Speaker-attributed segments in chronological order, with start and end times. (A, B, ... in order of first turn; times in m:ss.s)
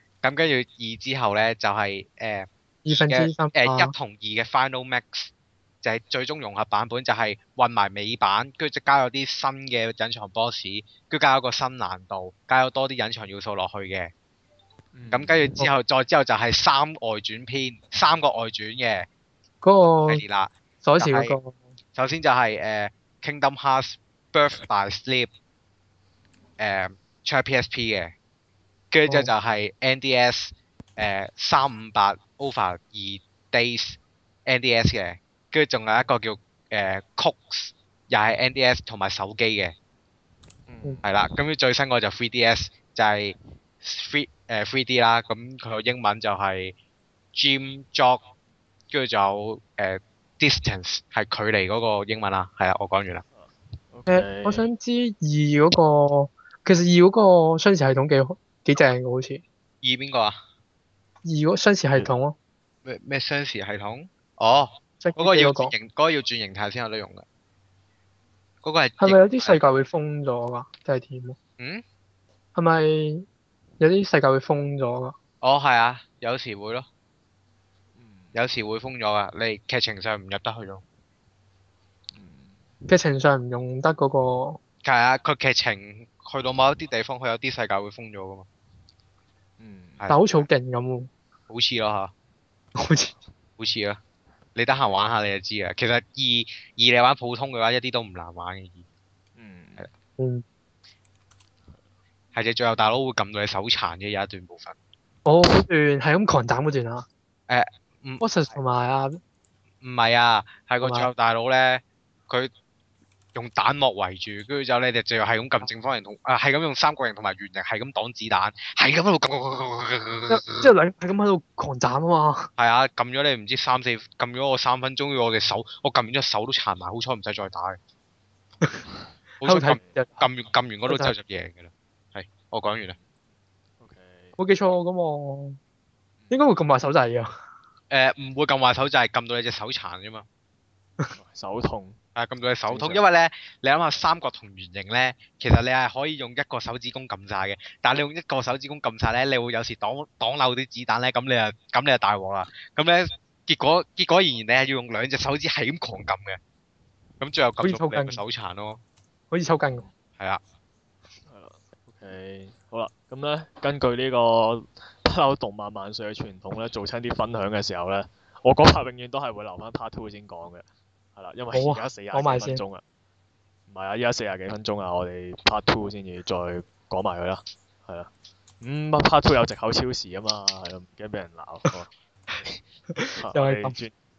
0:00.2-0:05.3 A
0:02.8-0:03.9 B
0:05.8-0:14.1 A
0:14.9-0:15.6 C
0:15.1-0:19.1 A
0:19.6-0:20.2 B
0:20.1-0:21.4 A
0:20.8-0:21.6 B
0:21.9-0:25.3 A
0:26.6-0:28.1 A
0:28.9-0:39.7 A
0:40.7-0:41.0 C
0:41.0-0:46.7 A
0:47.3-0:48.2 A
0:48.9-0:53.2 A
0:53.3-0:54.7 C
0:54.1-0:59.4 B
0:59.8-1:00.4 A
1:01.2-1:02.4 B
1:02.8-1:07.2 A
1:05.0-1:05.7 B
1:08.6-1:09.6 A
1:09.0-1:11.4 B
1:11.6-1:11.8 A
1:12.5-1:13.2 B
1:13.8-1:15.1 B
1:15.4-1:16.8 A
1:18.0-1:18.3 C
1:18.3-1:20.8 A
1:22.1-1:22.6 C
1:22.9-1:24.6 B
1:24.8-1:28.4 A
1:29.6-1:30.0 C
1:30.1-1:31.1 B
1:31.5-1:32.1 A
1:32.8-1:33.1 B
1:33.6-1:34.0 A
1:34.5-1:38.8 A
1:39.4-1:39.9 C
1:40.2-1:40.4 B
1:42.3-1:44.7 A
1:45.2-1:47.0 B
1:47.5-1:48.2 A
1:48.2-1:49.2 B
1:49.8-1:52.5 A
1:50.8-1:51.1 B
1:53.3-2:00.7 A
2:00.3-2:02.5 B
2:02.6-2:07.8 A
2:09.4-2:12.9 A
2:09.4-2:10.3 B
2:10.9-2:11.1 B
2:13.8-2:14.4 C
2:14.4-2:15.6 B
2:16.3-2:17.3 B
2:17.9-2:20.2 A
2:21.1-2:22.0 C
2:22.1-2:36.4 A
2:22.7-2:23.0 C
2:37.2-2:38.8 A
2:37.6-2:38.2 B
2:39.3-2:39.8 B
2:41.3-2:50.6 C
2:51.2-2:52.8 C
2:51.5-2:52.6 B
2:53.7-2:58.1 C
2:58.6-3:01.9 C
3:03.0-3:03.8 B
3:03.2-3:03.9 C